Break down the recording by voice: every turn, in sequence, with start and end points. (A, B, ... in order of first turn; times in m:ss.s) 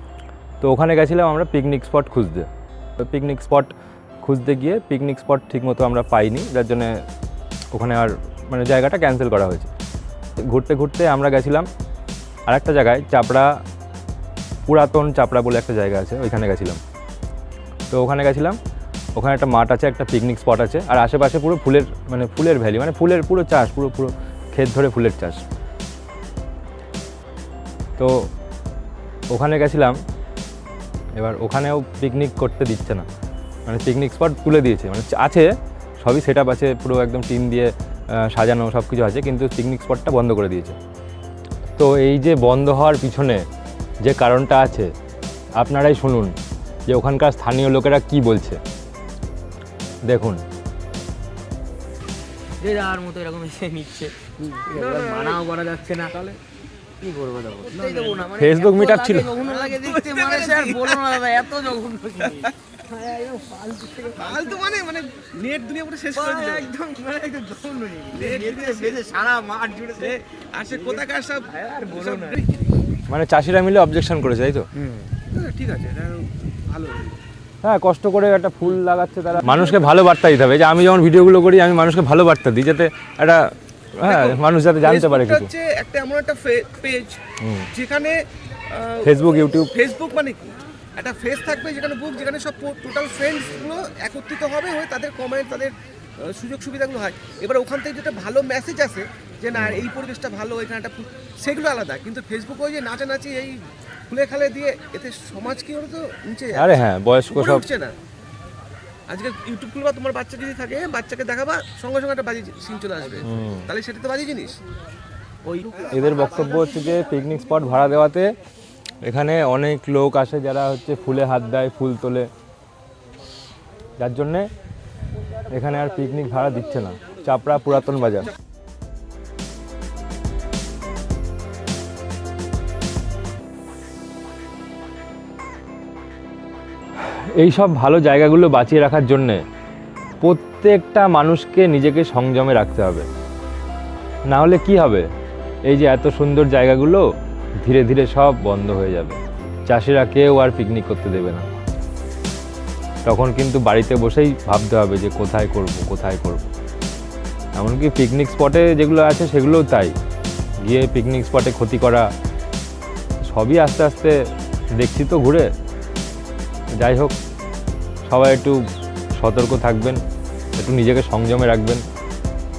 0:00.6-0:02.5 A
0:03.0-0:07.0 A
0:07.7-0:09.7 A
0:10.4-0:11.7 A
0:12.5-0:13.6 A
0:14.7-0:16.8 A
0:17.9-0:18.6 A
0:19.2-0:25.4 A
0:28.0-0:28.3 A
0:29.3-0:30.0 A
0:31.2-0:33.0 A
0:33.6-0:40.8 A
0:41.8-0:43.5 A
0:44.0-0:44.9 A
0:45.6-0:48.6 A
0:50.0-0:50.4 A
0:52.6-0:56.1 B
0:54.7-0:55.5 C
0:57.0-1:04.6 B
0:57.8-0:58.2 C
0:58.4-0:59.3 A
0:59.4-1:01.2 C
1:04.2-1:06.7 C
1:06.1-1:10.2 B
1:08.1-1:09.0 C
1:09.9-1:12.7 C
1:10.7-1:12.4 B
1:13.1-1:14.6 A
1:14.8-1:15.1 B
1:15.3-1:17.2 C
1:17.6-1:25.5 A
1:19.4-1:19.8 C
1:24.0-1:47.9 C
1:27.4-1:27.7 A
1:29.0-1:29.7 A
1:39.5-1:39.8 A
1:46.5-1:47.6 A
1:49.1-1:54.6 C
1:53.2-1:53.7 A
1:55.8-1:58.3 A
1:59.0-2:02.3 A
2:04.0-2:04.5 A
2:05.5-2:08.3 A
2:17.0-2:19.4 A
2:20.2-2:23.1 A
2:24.3-2:25.1 A
2:25.6-2:27.1 A
2:27.6-2:31.6 A
2:33.0-2:36.5 A
2:37.6-2:39.9 A
2:40.6-2:42.1 A
2:43.3-2:44.2 A
2:44.8-2:45.5 A
2:46.8-2:47.1 A
2:48.1-2:50.0 A
2:50.6-2:51.8 A